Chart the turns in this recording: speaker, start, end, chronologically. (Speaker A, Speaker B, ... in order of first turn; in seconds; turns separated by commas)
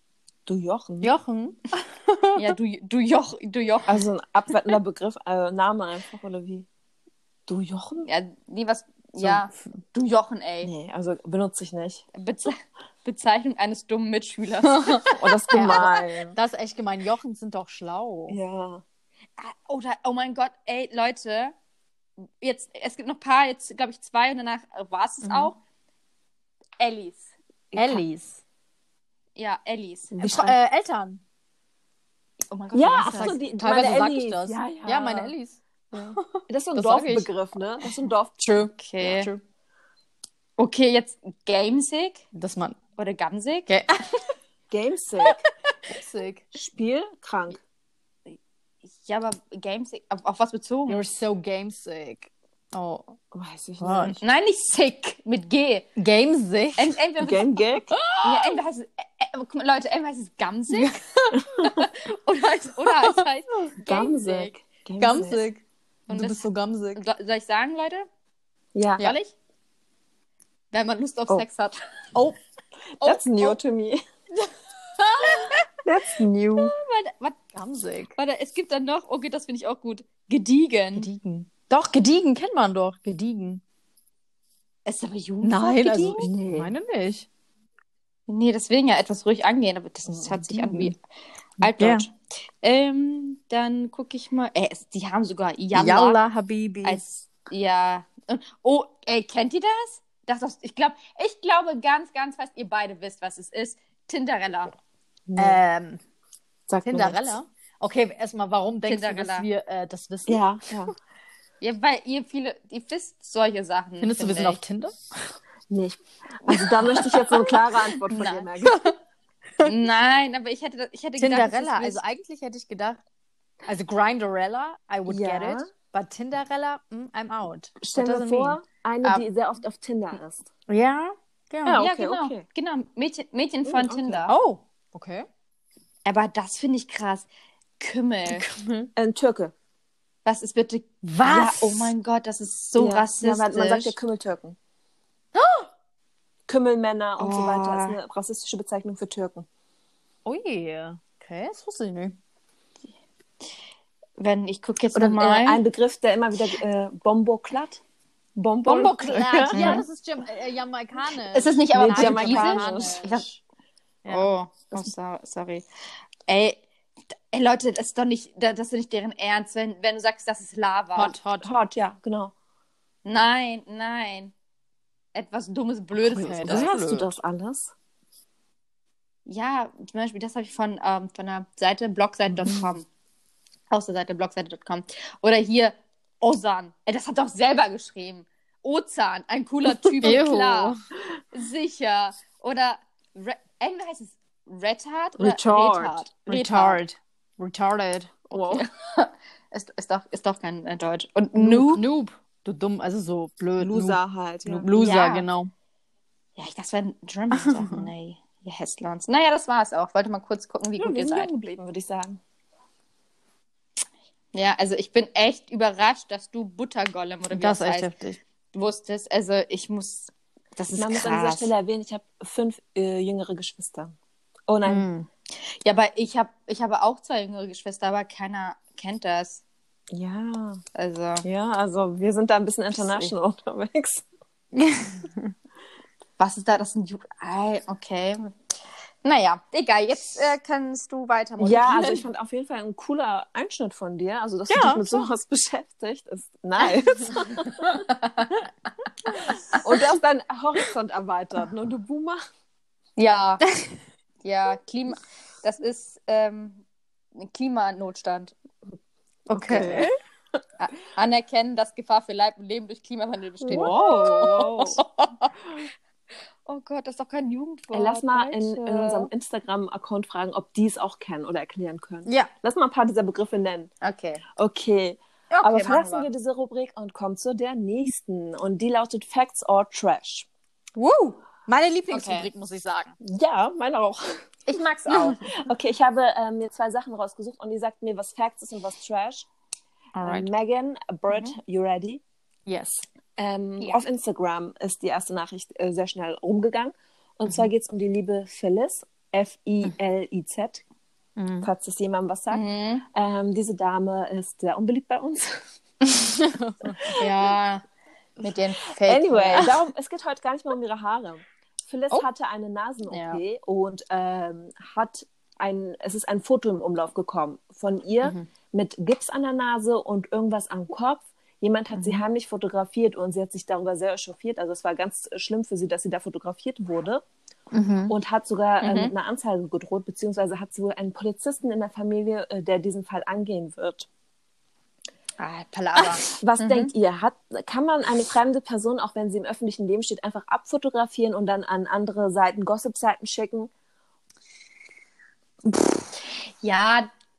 Speaker A: 0.5-1.1, Speaker B: 1.0-2.6, Speaker C: 2.4-4.0, Speaker A: 3.9-6.7, Speaker A: 7.5-8.1, Speaker C: 8.1-10.7, Speaker A: 10.6-12.0, Speaker C: 12.1-15.2, Speaker B: 14.7-18.4, Speaker A: 15.2-16.4, Speaker A: 18.3-18.8, Speaker C: 19.4-21.5, Speaker C: 22.4-25.6, Speaker B: 25.2-25.5, Speaker C: 26.8-27.3, Speaker A: 27.7-28.0, Speaker B: 27.8-28.4, Speaker C: 29.4-30.5, Speaker B: 30.2-31.2, Speaker A: 30.2-30.5, Speaker C: 32.5-33.4, Speaker A: 32.7-35.3, Speaker B: 33.0-35.6, Speaker A: 35.9-38.4, Speaker B: 36.1-37.3, Speaker B: 38.4-39.4, Speaker C: 38.7-39.3, Speaker C: 40.6-42.2, Speaker B: 42.3-42.8, Speaker C: 43.0-43.7, Speaker B: 43.7-44.0, Speaker A: 44.7-45.4, Speaker B: 45.2-46.5, Speaker A: 46.5-47.6, Speaker C: 49.0-51.0, Speaker B: 50.9-53.2, Speaker A: 53.3-54.2, Speaker B: 53.8-54.2, Speaker C: 54.2-55.9, Speaker B: 56.0-57.0, Speaker C: 56.8-57.5, Speaker A: 57.2-58.0, Speaker B: 57.9-58.6, Speaker C: 58.2-61.0, Speaker B: 60.7-61.4, Speaker A: 61.4-61.7, Speaker C: 61.5-64.5, Speaker A: 63.8-65.4, Speaker B: 65.0-67.0, Speaker C: 66.1-66.4, Speaker C: 67.0-68.1, Speaker A: 68.7-69.0, Speaker C: 69.0-69.3, Speaker C: 70.7-71.8, Speaker C: 73.0-73.6, Speaker A: 73.0-74.0, Speaker B: 75.0-75.5, Speaker C: 75.3-75.5, Speaker A: 75.8-76.7, Speaker C: 76.6-77.4, Speaker B: 77.5-78.2, Speaker C: 78.2-81.1, Speaker B: 81.0-83.6, Speaker C: 84.9-86.3, Speaker B: 85.4-87.3, Speaker A: 86.2-86.7, Speaker C: 88.3-91.0, Speaker A: 90.1-90.9, Speaker C: 91.6-96.2, Speaker B: 91.8-92.1, Speaker B: 95.7-97.0, Speaker C: 96.8-104.7, Speaker A: 105.3-105.6, Speaker B: 105.4-106.0, Speaker A: 106.7-107.4, Speaker B: 106.8-110.5, Speaker C: 108.8-109.5, Speaker A: 110.3-110.9, Speaker C: 111.6-114.6, Speaker B: 114.0-115.3, Speaker A: 115.7-118.9, Speaker C: 116.5-117.5, Speaker C: 118.1-118.9, Speaker C: 119.6-122.0, Speaker B: 121.2-123.0, Speaker B: 123.7-128.6, Speaker A: 125.1-125.7, Speaker A: 127.8-130.5, Speaker B: 130.7-131.8, Speaker A: 131.7-132.4, Speaker C: 131.8-134.3, Speaker A: 133.7-134.3, Speaker B: 134.3-135.3, Speaker C: 136.1-137.3, Speaker C: 137.8-138.5, Speaker B: 138.4-138.8, Speaker A: 139.0-139.5, Speaker C: 140.3-144.0, Speaker B: 141.0-141.9, Speaker A: 142.8-144.6, Speaker A: 146.5-149.5, Speaker C: 147.2-148.0, Speaker B: 150.2-152.2, Speaker C: 154.2-155.6, Speaker A: 154.9-157.8, Speaker A: 158.4-159.9, Speaker B: 158.7-163.4, Speaker C: 159.5-159.8, Speaker C: 161.3-163.2, Speaker A: 161.7-163.0, Speaker B: 164.0-164.3, Speaker C: 164.1-165.7, Speaker C: 166.3-171.2, Speaker B: 170.9-171.5, Speaker A: 171.4-172.3, Speaker C: 173.1-174.3, Speaker C: 175.2-176.7, Speaker B: 176.0-177.1, Speaker A: 176.4-177.7, Speaker C: 179.3-182.9, Speaker C: 183.7-190.8, Speaker B: 190.0-190.8, Speaker C: 191.3-196.8, Speaker A: 195.2-196.0, Speaker B: 196.3-198.6, Speaker A: 198.3-198.6, Speaker C: 198.5-201.8, Speaker B: 201.4-205.5, Speaker A: 203.6-204.7, Speaker C: 204.7-205.3, Speaker C: 206.4-211.3, Speaker B: 207.3-207.9, Speaker A: 210.8-212.2, Speaker C: 214.3-217.9, Speaker B: 217.3-218.2, Speaker C: 218.5-221.5, Speaker A: 220.8-223.9, Speaker A: 224.5-224.9, Speaker B: 224.7-225.1, Speaker C: 225.4-229.4, Speaker A: 229.9-230.6, Speaker C: 230.8-231.3, Speaker A: 231.2-234.1, Speaker B: 234.5-235.3, Speaker C: 236.2-238.3, Speaker C: 239.0-242.1, Speaker A: 241.4-247.8, Speaker B: 244.5-245.1, Speaker C: 247.3-248.4, Speaker C: 249.1-249.6, Speaker B: 249.2-249.5, Speaker A: 249.5-252.2, Speaker C: 253.0-253.4, Speaker C: 254.2-256.6, Speaker C: 257.1-258.3, Speaker B: 259.3-259.9, Speaker A: 259.3-259.9, Speaker C: 259.4-259.9, Speaker C: 260.6-265.3, Speaker A: 263.4-264.8, Speaker B: 263.5-264.8, Speaker C: 266.5-269.1, Speaker A: 267.7-273.7, Speaker C: 273.8-274.2, Speaker A: 274.4-280.3, Speaker C: 275.3-276.1, Speaker B: 280.8-282.9, Speaker C: 281.9-282.3, Speaker A: 283.0-284.2, Speaker C: 284.5-285.2, Speaker A: 284.9-289.3, Speaker B: 289.9-290.3, Speaker A: 290.0-292.0, Speaker B: 292.5-292.9, Speaker A: 293.2-300.6, Speaker B: 301.2-301.5, Speaker A: 301.4-305.5, Speaker C: 302.3-302.8, Speaker B: 305.9-306.9, Speaker C: 306.9-307.6, Speaker C: 308.2-309.5, Speaker A: 308.8-327.0, Speaker C: 312.9-313.2, Speaker B: 321.8-322.0, Speaker B: 327.5-327.9, Speaker A: 327.9-333.9, Speaker C: 328.6-328.9, Speaker C: 335.2-336.7, Speaker A: 336.1-343.5, Speaker C: 346.4-346.9